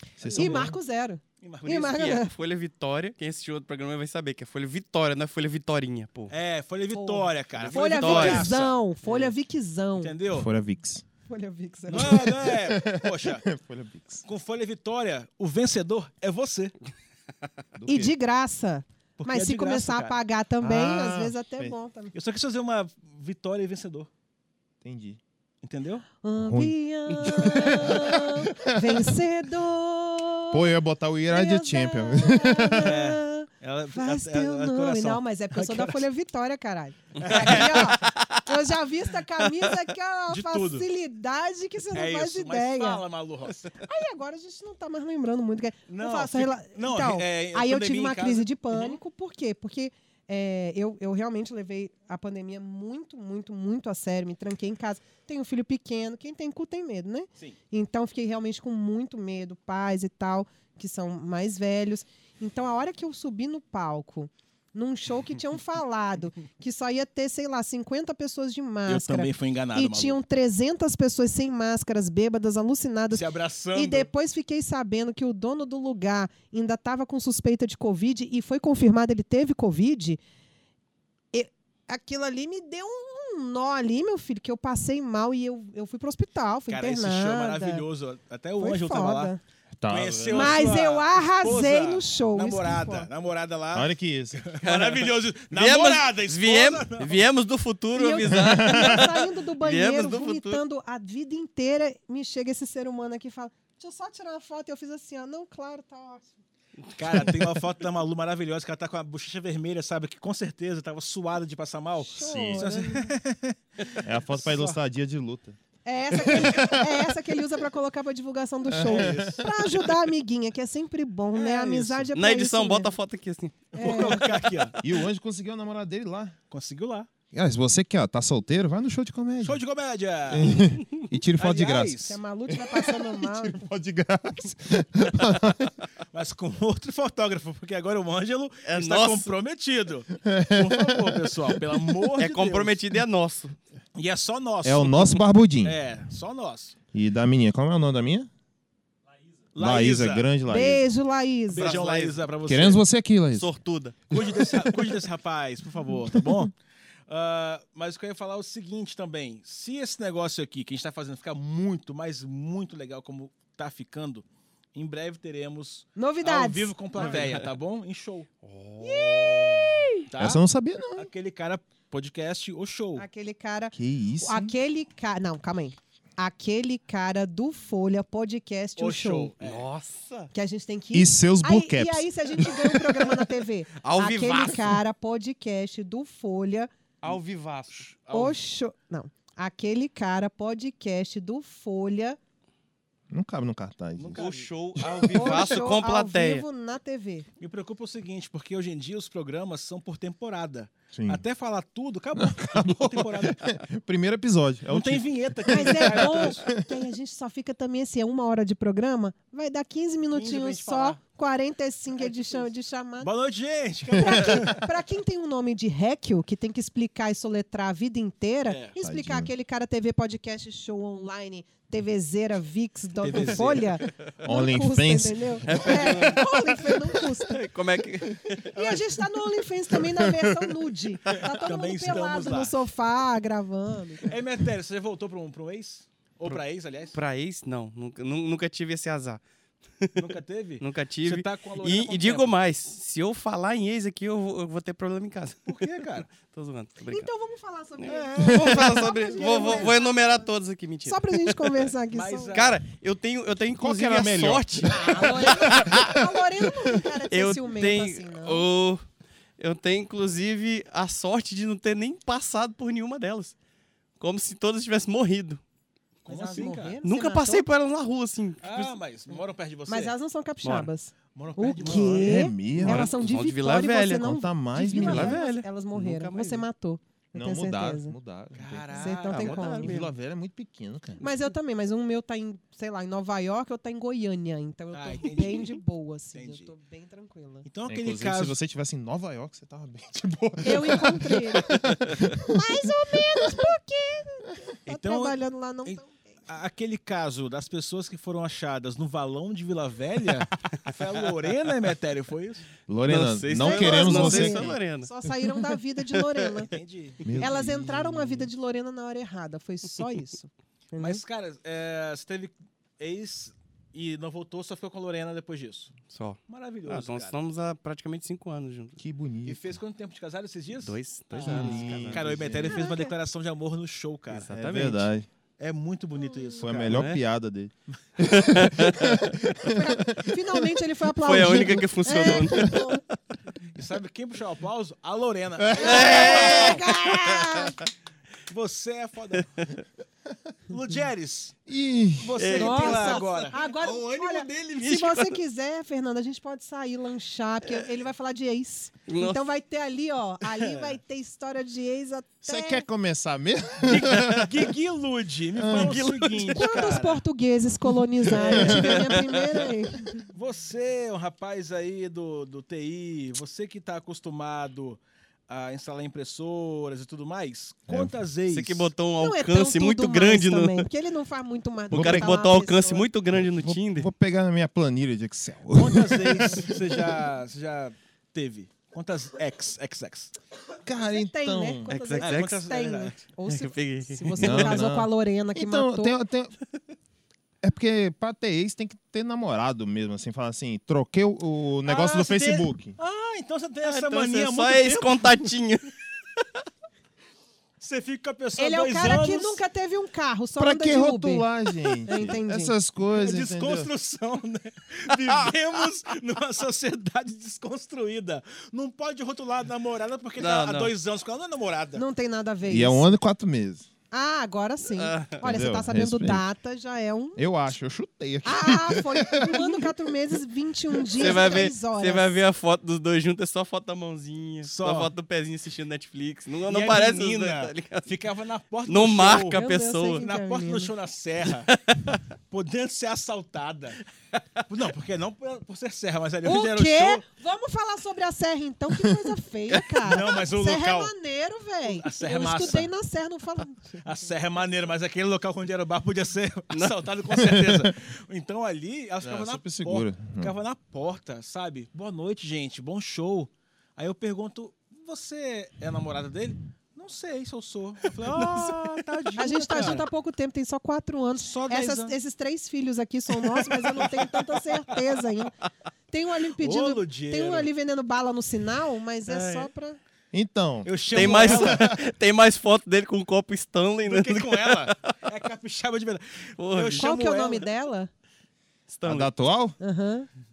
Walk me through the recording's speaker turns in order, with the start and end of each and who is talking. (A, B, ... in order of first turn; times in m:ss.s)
0:00.2-0:00.8 A
0:00.2-0:00.7 B
0:00.3-0:02.3 C
0:01.4-0:02.2 B
0:01.9-0:06.3 D
0:06.3-0:08.8 B
0:06.9-0:10.1 C
0:07.6-0:08.6 D
0:10.0-0:10.5 B
0:10.3-0:11.0 A
0:11.3-0:12.4 C
0:11.9-0:13.5 B
0:12.0-0:14.2 A
0:14.2-0:16.7 B
0:17.8-0:18.1 A
0:17.8-0:22.1 C
0:19.2-0:20.2 B
0:20.6-0:21.7 A
0:22.1-0:24.1 B
0:24.8-0:25.2 A
0:25.6-0:26.0 B
0:26.2-0:30.7 C
0:26.4-0:29.1 A
0:30.5-0:33.0 A
0:31.3-0:43.0 C
0:32.8-0:36.0 B
0:37.2-0:38.1 B
0:40.3-0:40.9 B
0:41.9-0:43.7 B
0:43.7-1:20.2 C
0:45.9-0:49.0 B
1:08.9-1:10.2 B
1:13.1-1:14.1 B
1:21.3-1:27.8 C
1:26.7-1:29.3 B
1:28.6-1:29.4 C
1:29.8-1:30.6 A
1:29.9-1:37.2 B
1:30.2-1:33.1 C
1:33.7-1:34.5 A
1:34.6-1:40.6 D
1:37.9-1:46.2 C
1:38.2-1:39.1 A
1:47.0-1:54.8 B
1:52.1-1:53.1 C
1:52.1-1:52.7 A
1:54.0-1:55.6 A
1:55.8-2:02.9 C
1:56.1-1:57.1 A
1:58.6-1:59.6 A
1:58.8-1:59.5 B
2:01.3-2:02.1 B
2:02.1-2:04.1 D
2:03.7-2:04.3 C
2:03.7-2:04.9 B
2:04.8-2:06.3 A
2:06.5-2:07.1 B
2:07.3-2:09.6 A
2:09.4-2:10.8 B
2:10.3-2:15.7 A
2:11.4-2:12.2 B
2:12.0-2:13.7 C
2:16.1-2:22.8 B
2:18.6-2:19.3 D
2:20.2-2:22.1 A
2:22.2-2:23.6 D
2:23.9-2:26.7 B
2:24.6-2:25.8 A
2:26.9-2:28.3 A
2:29.5-2:30.3 B
2:29.5-2:30.8 A
2:30.5-2:31.7 C
2:31.5-2:32.8 B
2:31.5-2:32.2 D
2:32.4-2:33.5 A
2:33.3-2:34.1 D
2:34.1-2:36.5 B
2:37.1-2:48.3 B
2:46.0-2:47.2 C
2:47.0-2:47.5 D
2:48.4-2:49.8 D
2:48.8-2:50.1 C
2:50.1-2:50.4 B
2:50.2-2:51.1 A
2:51.0-2:53.0 B
2:53.0-2:59.3 C
2:53.7-2:54.5 A
2:58.8-2:59.7 B
2:59.4-3:00.3 D
3:00.3-3:06.7 C
3:00.9-3:03.2 A
3:03.8-3:04.8 D
3:07.0-3:07.8 D
3:07.7-3:08.4 B
3:08.1-3:12.2 C
3:13.1-3:14.2 A
3:14.0-3:14.8 B
3:14.2-3:16.4 D
3:15.0-3:15.3 A
3:15.1-3:17.3 C
3:17.4-3:23.5 B
3:20.9-3:21.2 A
3:22.2-3:26.5 A
3:24.7-3:26.4 B
3:25.5-3:33.1 C
3:30.1-3:31.0 B
3:32.0-3:34.7 B
3:34.0-3:47.4 C
3:38.5-3:38.7 B
3:38.8-3:39.3 A
3:43.0-3:43.9 B
3:44.2-3:45.6 A
3:45.4-3:48.5 D
3:45.8-3:46.2 B
3:48.5-3:54.2 C
3:48.5-3:48.8 B
3:51.3-3:52.6 B
3:54.0-3:56.9 B
3:56.9-3:59.2 D
3:59.8-4:07.1 D
4:00.0-4:02.3 B
4:05.5-4:06.1 B
4:06.8-4:10.3 C
4:07.8-4:11.7 D
4:07.9-4:09.7 B
4:10.8-4:12.4 C
4:11.9-4:12.6 B
4:12.3-4:15.9 D
4:13.6-4:16.1 A
4:14.7-4:18.5 C
4:17.1-4:18.8 D
4:19.4-4:23.3 D
4:24.0-4:25.4 D
4:26.0-4:26.8 B
4:26.1-4:27.4 C
4:26.8-4:28.8 D
4:28.4-4:29.9 B
4:29.7-4:37.9 C
4:30.4-4:30.7 D
4:31.1-4:32.6 B
4:31.8-4:33.0 A
4:32.6-4:34.1 D
4:33.9-4:35.2 A
4:34.7-4:36.4 D
4:37.1-4:41.1 A
4:38.3-4:39.8 B
4:38.7-4:39.8 C
4:39.1-4:39.9 D
4:41.0-4:47.5 C
4:44.7-4:45.6 B
4:46.1-4:46.5 B
4:47.4-4:48.4 B
4:47.7-4:53.5 A
4:50.4-4:56.0 C
4:54.6-5:02.4 B
5:02.7-5:04.6 A
5:02.9-5:06.4 D
5:03.4-5:06.5 C
5:06.5-5:07.1 B
5:07.0-5:08.3 A
5:07.2-5:11.0 C
5:10.8-5:15.7 B
5:15.9-5:18.8 D
5:16.3-5:17.2 B
5:18.8-5:19.6 A
5:19.2-5:24.3 B
5:20.6-5:22.0 D
5:21.2-5:22.7 A
5:22.4-5:22.9 C
5:24.1-5:24.9 D
5:24.3-5:25.1 A
5:25.4-5:27.0 B
5:26.0-5:26.5 C
5:26.4-5:30.2 A
5:26.7-5:27.0 D
5:28.1-5:29.1 D
5:29.4-5:32.8 C
5:31.0-5:32.9 D
5:31.1-5:32.5 A
5:33.5-5:36.6 B
5:35.5-5:35.8 A
5:35.5-5:37.6 C
5:35.5-5:37.6 D
5:38.3-5:39.3 B
5:40.5-5:41.4 B
5:41.5-5:42.3 A
5:42.0-5:43.4 B
5:42.2-5:45.2 D
5:42.3-5:52.6 C
5:48.9-5:49.2 D
5:52.2-5:54.3 A
5:53.6-5:57.0 B
5:53.9-5:54.2 D
5:55.4-5:55.9 A
5:55.4-5:56.7 D
5:56.3-5:59.9 C
5:58.1-5:59.5 D
5:58.1-5:58.9 B
5:58.3-5:58.8 A
6:00.1-6:08.7 B
6:07.7-6:07.9 A
6:08.3-6:10.7 D
6:09.0-6:12.9 C
6:11.7-6:13.9 D
6:11.7-6:12.2 A
6:13.1-6:17.0 A
6:15.5-6:20.1 B
6:20.6-6:21.7 A
6:20.8-6:26.0 C
6:21.7-6:22.4 D
6:22.0-6:23.0 B
6:23.3-6:24.7 D
6:24.2-6:26.3 A
6:27.4-6:32.8 A
6:31.6-6:35.3 B
6:33.6-6:36.2 D
6:37.6-6:39.4 B
6:38.4-6:41.3 C
6:40.4-6:43.7 A
6:41.9-6:42.5 C
6:42.9-6:51.8 B
6:50.2-6:50.7 D
6:51.7-6:53.0 C
6:52.4-6:53.7 A
6:53.9-6:57.2 C
6:54.7-6:55.2 D
6:55.2-6:56.2 A
6:57.2-6:59.7 A
6:58.2-7:02.1 C
7:01.0-7:07.9 D
7:04.4-7:04.9 B
7:06.4-7:09.4 B
7:08.7-7:10.0 D
7:09.3-7:10.7 C
7:09.9-7:11.5 B
7:11.2-7:12.0 D
7:12.3-7:13.8 B
7:14.5-7:17.0 B
7:16.2-7:23.9 C
7:19.8-7:20.9 B
7:21.6-7:22.7 B
7:23.8-7:39.8 B
7:27.2-7:27.7 A
7:29.0-7:30.4 A
7:38.2-7:38.7 D
7:39.2-7:45.4 C
7:39.5-7:39.8 D
7:41.2-7:41.9 B
7:43.6-7:44.2 B
7:45.9-7:49.8 C
7:46.4-7:47.5 B
7:49.1-7:49.5 D
7:50.1-7:51.8 A
7:50.6-7:51.7 B
7:50.9-7:55.0 D
7:53.8-7:57.4 B
7:56.4-7:56.9 D
7:56.8-7:57.9 C
7:58.7-7:59.1 D
7:58.8-7:59.6 A
7:59.6-8:00.1 C